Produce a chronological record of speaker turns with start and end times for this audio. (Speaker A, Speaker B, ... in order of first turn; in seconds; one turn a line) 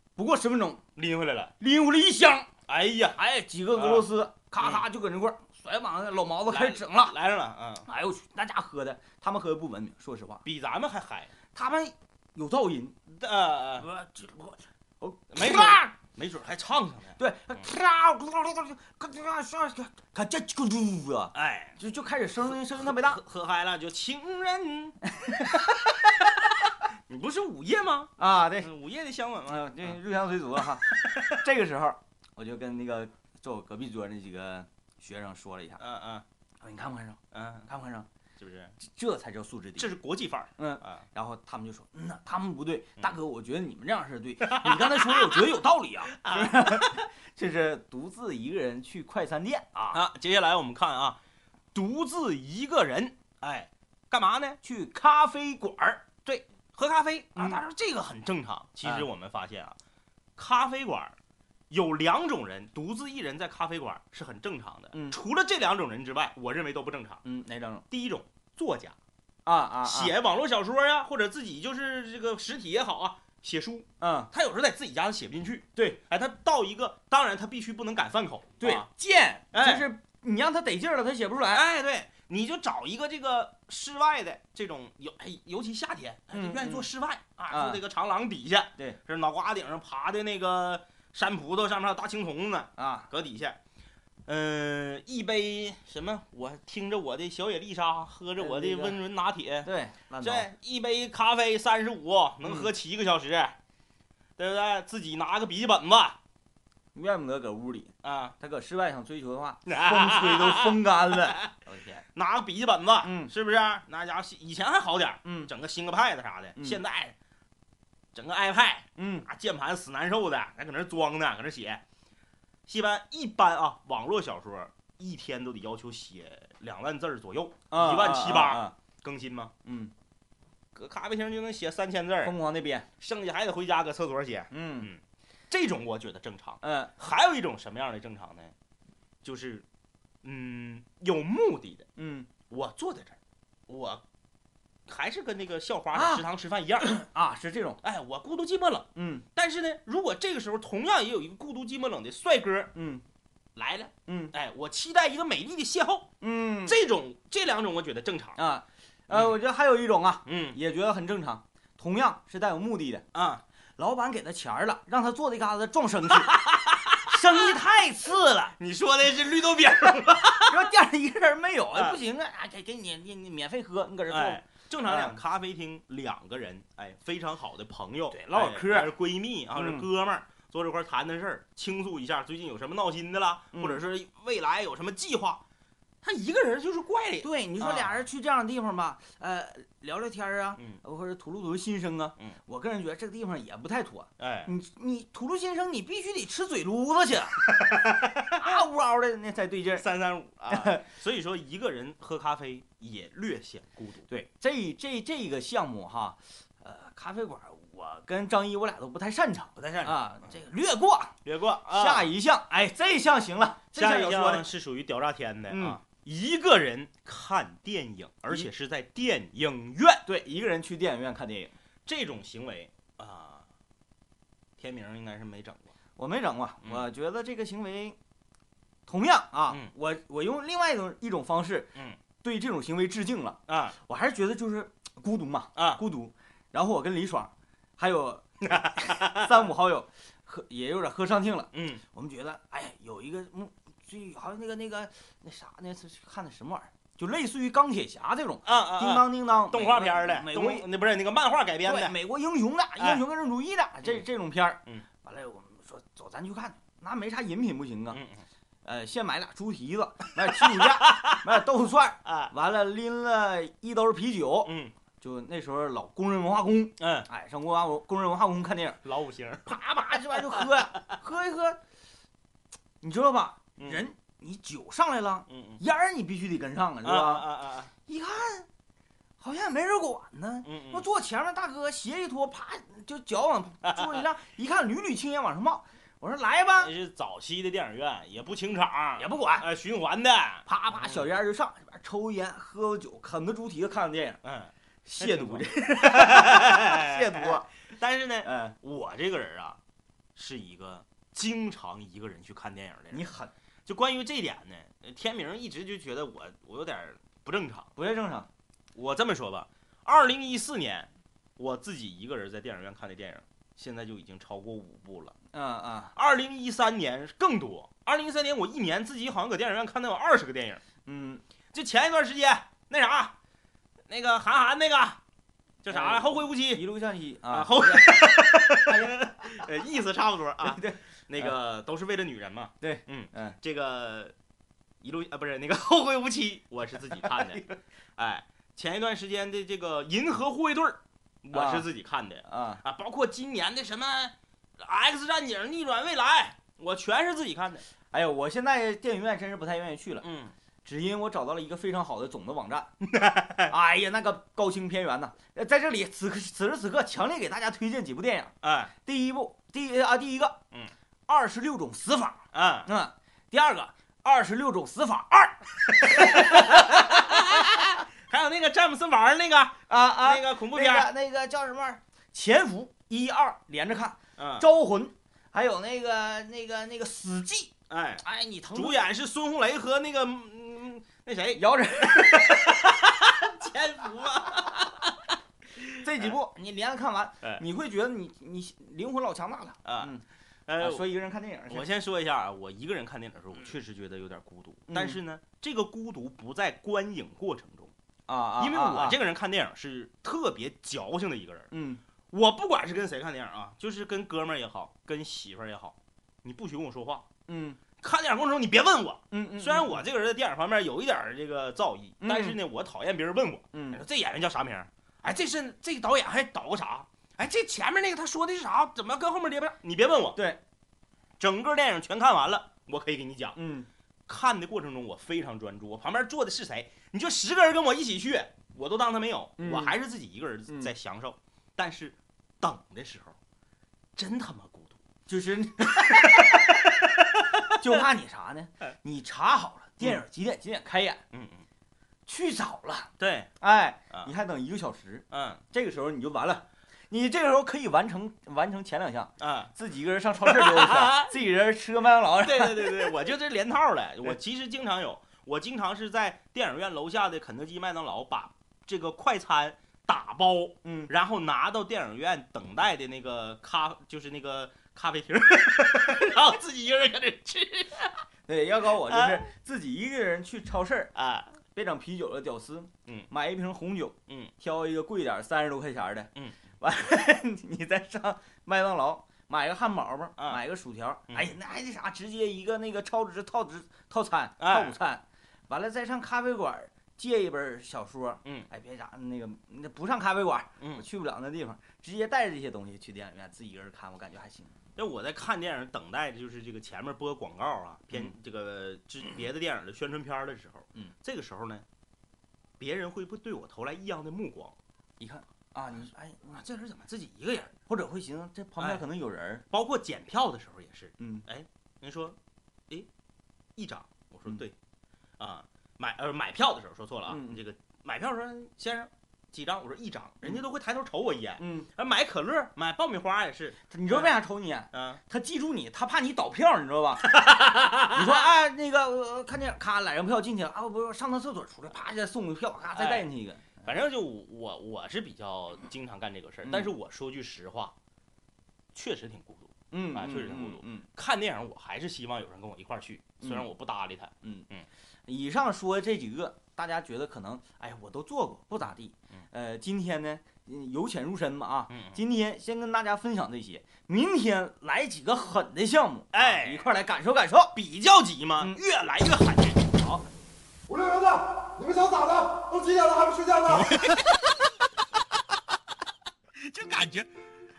Speaker A: 0.1-0.8
Speaker B: 0.9-1.5
Speaker A: 1.6-2.5
Speaker B: 2.7-3.2
Speaker A: 3.1-7.1
Speaker B: 3.7-4.8
Speaker B: 6.5-7.8
Speaker A: 7.8-10.4
Speaker B: 10.4-11.3
Speaker A: 11.5-12.9
Speaker B: 13.1-13.9
Speaker A: 13.8-15.9
Speaker B: 15.3-17.2
Speaker A: 17.2-23.2
Speaker B: 21.3-21.8
Speaker B: 22.4-25.0
Speaker A: 25.1-25.9
Speaker B: 27.1-29.9
Speaker A: 28.2-28.7
Speaker A: 29.4-35.8
Speaker B: 30.9-31.3
Speaker B: 35.8-36.2
Speaker A: 36.6-38.1
Speaker B: 37.3-37.7
Speaker B: 38.4-38.7
Speaker A: 38.8-40.0
Speaker B: 39.8-41.0
Speaker A: 40.6-50.0
Speaker B: 44.4-45.5
Speaker B: 46.0-47.0
Speaker B: 49.9-51.2
Speaker B: 51.7-54.6
Speaker A: 54.6-56.0
Speaker B: 56.2-59.8
Speaker A: 57.3-57.6
Speaker B: 60.4-61.1
Speaker B: 61.7-67.2
Speaker A: 64.9-65.2
Speaker A: 67.2-67.8
Speaker B: 67.9-69.0
Speaker A: 69.4-70.1
Speaker B: 69.8-78.9
Speaker A: 74.0-74.3
Speaker A: 78.6-81.6
Speaker B: 79.5-79.9
Speaker B: 81.5-93.6
Speaker A: 86.3-86.9
Speaker A: 87.5-87.8
Speaker A: 92.8-93.1
Speaker B: 94.2-103.6
Speaker A: 98.4-99.0
Speaker A: 99.6-100.5
Speaker A: 102.4-102.7
Speaker B: 104.4-106.2
Speaker A: 106.9-112.0
Speaker B: 108.0-108.3
Speaker B: 109.7-111.5
Speaker B: 112.1-117.1
Speaker A: 113.0-113.3
Speaker A: 115.2-115.5
Speaker A: 116.5-116.8
Speaker B: 118.1-121.8
Speaker A: 119.0-119.2
Speaker B: 122.7-129.5
Speaker A: 127.7-128.7
Speaker A: 129.6-129.9
Speaker B: 130.7-132.3
Speaker A: 132.2-132.9
Speaker B: 133.0-138.5
Speaker A: 134.5-134.9
Speaker A: 136.6-136.9
Speaker B: 139.2-139.6
Speaker B: 140.2-141.8
Speaker A: 142.0-142.3
Speaker B: 142.5-144.0
Speaker B: 144.9-147.0
Speaker A: 145.9-146.2
Speaker A: 146.8-147.8
Speaker B: 147.8-152.7
Speaker A: 148.9-149.2
Speaker A: 152.7-153.0
Speaker B: 153.6-158.4
Speaker A: 154.1-154.3
Speaker A: 156.2-156.8
Speaker A: 158.4-163.1
Speaker B: 159.1-159.3
Speaker B: 160.2-160.6
Speaker B: 163.1-163.4
Speaker A: 163.8-166.4
Speaker B: 166.1-167.5
Speaker A: 167.1-168.5
Speaker B: 168.6-170.7
Speaker A: 170.4-175.2
Speaker B: 171.7-172.0
Speaker B: 174.1-185.4
Speaker A: 178.1-178.9
Speaker A: 179.5-179.9
Speaker A: 183.5-183.8
Speaker B: 186.0-188.0
Speaker A: 187.2-197.5
Speaker B: 194.2-194.5
Speaker B: 197.4-198.6
Speaker A: 198.3-199.9
Speaker B: 199.8-204.1
Speaker A: 200.5-200.8
Speaker A: 204.1-211.2
Speaker B: 209.6-210.0
Speaker B: 211.2-212.1
Speaker A: 211.7-214.5
Speaker B: 213.7-220.0
Speaker A: 215.5-215.8
Speaker A: 220.0-221.5
Speaker B: 221.8-223.5
Speaker B: 224.6-225.7
Speaker A: 226.0-228.0
Speaker A: 228.9-250.7
Speaker B: 233.5-233.8
Speaker B: 235.6-235.8
Speaker B: 238.4-239.4
Speaker B: 241.5-241.8
Speaker B: 248.4-251.9
Speaker A: 251.6-258.0
Speaker B: 257.9-258.2
Speaker A: 258.6-268.8
Speaker B: 260.2-261.4
Speaker B: 262.0-262.3
Speaker B: 264.4-264.7
Speaker B: 266.8-267.1
Speaker B: 268.8-270.6
Speaker A: 269.4-271.6
Speaker A: 272.8-277.3
Speaker B: 273.6-273.8
Speaker B: 275.3-275.6
Speaker B: 276.8-277.7
Speaker A: 277.9-278.5
Speaker A: 279.2-286.7
Speaker B: 280.4-280.9
Speaker B: 283.6-284.0
Speaker B: 286.6-291.1
Speaker A: 289.0-289.5
Speaker A: 290.4-294.2
Speaker B: 294.2-299.6
Speaker A: 294.9-297.5
Speaker A: 298.2-298.5
Speaker B: 300.1-303.0
Speaker A: 302.9-303.3
Speaker B: 303.6-307.7
Speaker A: 307.8-308.3
Speaker B: 308.7-315.1
Speaker A: 315.3-315.9
Speaker B: 315.9-320.6
Speaker A: 320.8-321.2
Speaker B: 321.5-323.1
Speaker B: 323.9-325.0
Speaker B: 325.6-326.6
Speaker A: 325.7-329.0
Speaker B: 327.3-334.1
Speaker A: 330.4-331.4
Speaker A: 332.6-333.4
Speaker B: 334.8-337.4
Speaker A: 336.9-337.6
Speaker B: 338.0-347.6
Speaker A: 341.3-341.7
Speaker A: 342.2-342.6
Speaker A: 347.9-350.1
Speaker B: 350.0-350.3
Speaker A: 350.6-352.7
Speaker B: 352.8-353.5
Speaker A: 353.5-360.4
Speaker B: 358.4-358.7
Speaker A: 361.1-367.4
Speaker B: 362.3-362.7
Speaker B: 365.8-370.9
Speaker A: 369.7-378.8
Speaker B: 374.2-374.4
Speaker B: 377.7-386.1
Speaker A: 381.3-382.6
Speaker A: 385.8-390.0
Speaker B: 389.6-389.9
Speaker B: 390.5-390.9
Speaker A: 390.6-391.6
Speaker B: 391.5-397.7
Speaker A: 394.7-395.0
Speaker A: 398.1-399.0
Speaker B: 398.4-401.5
Speaker A: 401.5-401.8
Speaker B: 402.1-407.1
Speaker A: 407.3-407.6
Speaker B: 407.8-420.2
Speaker A: 409.1-409.8
Speaker A: 412.0-412.4
Speaker A: 413.5-413.8
Speaker A: 420.1-420.4
Speaker B: 421.2-423.4
Speaker A: 423.4-423.7
Speaker B: 424.1-433.1
Speaker A: 429.4-429.8
Speaker A: 430.5-430.7
Speaker B: 433.9-434.8
Speaker A: 435.1-436.6
Speaker B: 435.7-437.6
Speaker A: 437.6-441.0
Speaker B: 441.1-441.4
Speaker A: 442.1-453.0
Speaker B: 443.0-443.3
Speaker B: 445.1-445.4
Speaker B: 449.2-449.5
Speaker B: 450.2-451.1
Speaker B: 452.2-468.0
Speaker A: 460.6-460.9
Speaker A: 468.3-470.9
Speaker B: 468.8-469.3
Speaker B: 470.9-471.3
Speaker A: 471.5-494.5
Speaker B: 481.1-481.3
Speaker B: 484.4-484.8
Speaker B: 490.6-490.8
Speaker B: 494.8-501.6
Speaker B: 502.6-504.6
Speaker A: 505.0-506.8
Speaker B: 506.4-507.6
Speaker A: 507.6-509.4
Speaker B: 508.6-508.9
Speaker B: 509.5-512.2
Speaker A: 511.0-511.2
Speaker B: 513.5-514.5
Speaker B: 515.2-524.1
Speaker A: 517.1-517.4
Speaker A: 521.4-521.7
Speaker A: 523.7-527.2
Speaker B: 524.7-525.0
Speaker B: 527.0-528.2
Speaker A: 527.9-533.6
Speaker B: 532.7-537.7
Speaker A: 536.4-536.7
Speaker B: 538.7-544.7
Speaker A: 539.7-540.9
Speaker A: 543.2-543.5
Speaker A: 545.1-557.5
Speaker B: 551.7-552.0
Speaker B: 556.1-556.7
Speaker B: 557.5-559.7
Speaker A: 559.8-560.0
Speaker C: 560.7-563.8
Speaker B: 563.5-564.2
Speaker B: 566.3-567.1